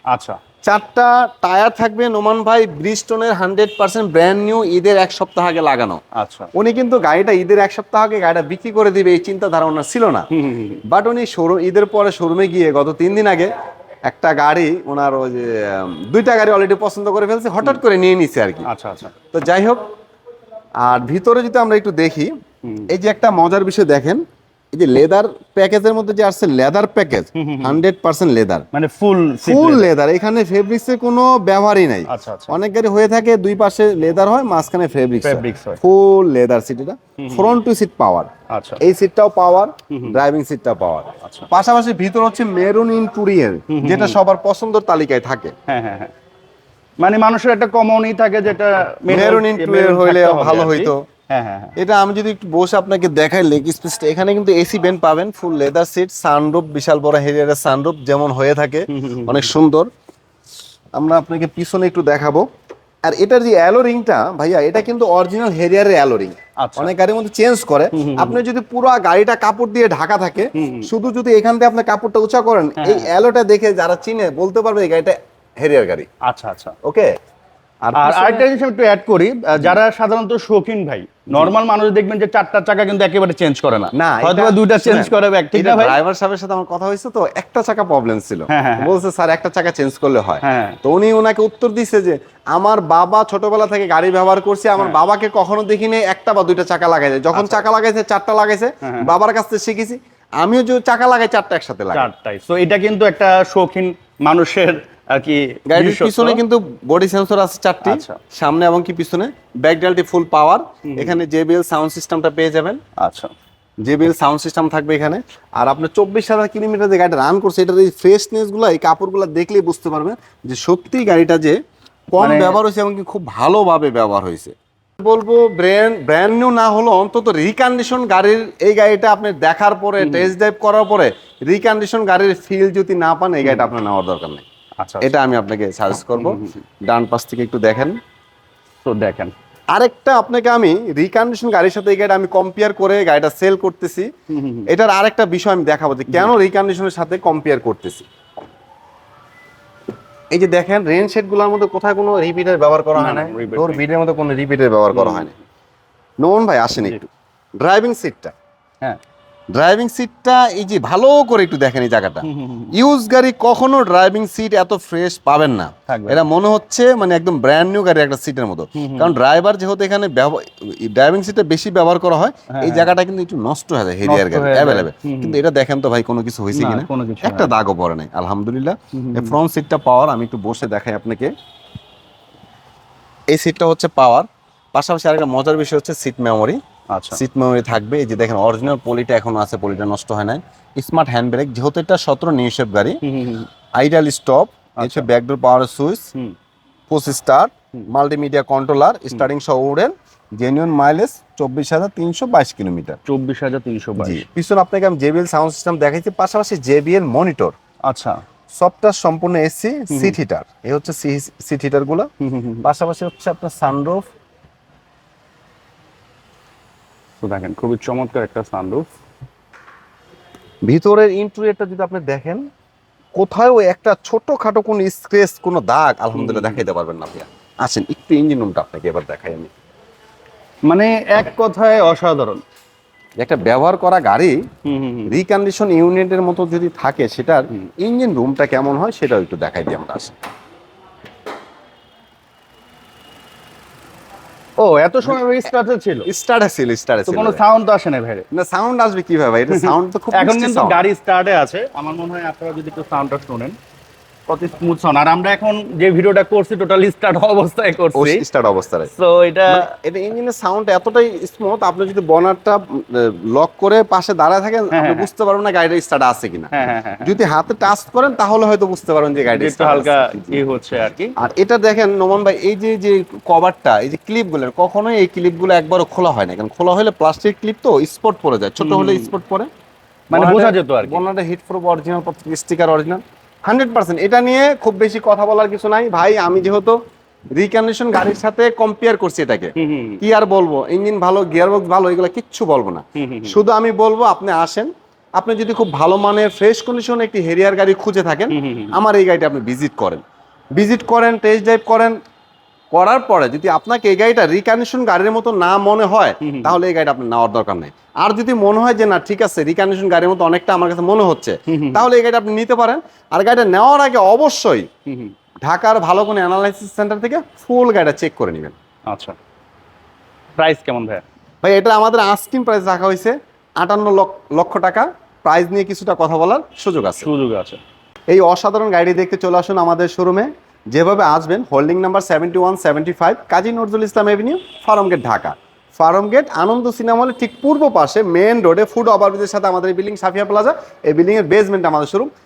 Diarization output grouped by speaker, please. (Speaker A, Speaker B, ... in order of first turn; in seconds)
Speaker A: 0.1-0.4, 6.2-6.5, 10.3-10.8, 18.6-19.1, 22.6-22.9, 27.4-27.8, 28.7-29.9, 32.1-32.6, 35.2-35.8, 37.2-37.6, 38.5-38.8, 39.9-40.2, 41.2-41.5, 43.7-44.2, 45.7-46.1, 47.0-51.8, 58.9-59.5, 66.6-66.9, 67.9-68.4, 70.5-70.9, 72.8-73.1, 76.2-76.8, 78.0-86.0, 88.5-88.9, 90.4-90.8, 97.3-97.7, 98.8-99.1, 101.9-106.4, 107.8-108.2, 110.9-111.2, 113.0-113.3, 122.2-122.6, 130.0-130.3, 133.4-133.7, 134.8-135.1, 136.2-136.6, 138.8-139.3, 144.3-144.7, 153.0-153.8, 154.9-155.3, 156.8-157.1, 162.2-162.8, 165.9-166.2, 168.8-169.2, 172.5-172.9, 174.0-175.4, 176.5-177.5, 178.9-179.4, 186.9-187.2, 193.0-193.5, 194.8-195.1, 203.1-204.3, 207.9-208.2, 209.9-210.2, 212.2-212.6, 217.2-218.9, 226.1-226.6, 230.7-232.4, 234.7-235.1, 244.6-246.1, 247.1-248.3, 249.5-253.6, 254.3-258.2, 258.9-259.7, 264.7-265.1, 266.5-267.2, 269.3-271.1, 278.6-279.1, 280.1-281.0, 289.6-290.0, 293.0-293.4, 298.3-298.8, 306.2-306.6, 311.5-311.9, 314.9-315.1, 318.9-319.2, 320.4-321.0, 327.0-327.6
Speaker B: 0.6-6.0, 6.5-10.3, 10.8-13.5, 14.1-18.7, 19.3-19.8, 20.8-22.3, 22.9-28.7, 29.4-45.5, 49.1-51.0, 51.8-59.9, 61.0-62.5, 63.1-76.1, 76.8-77.1, 77.8-78.5, 83.9-102.1, 105.7-112.8, 113.8-121.6, 122.1-134.4, 135.0-138.0, 139.7-144.1, 144.7-148.1, 150.3-155.3, 156.2-157.0, 157.6-158.3, 159.5-181.3, 183.3-186.6, 187.1-193.0, 193.8-196.1, 196.9-203.0, 204.0-207.6, 208.5-212.1, 212.6-214.1, 220.7-222.5, 223.2-229.5, 233.2-234.4, 235.1-240.2, 246.1-247.4, 248.3-250.8, 257.9-258.9, 259.5-270.4, 271.2-279.5, 280.1-286.8, 287.4-300.0, 300.6-302.0, 302.7-314.7, 315.4-318.6, 321.4-327.1, 328.1-342.1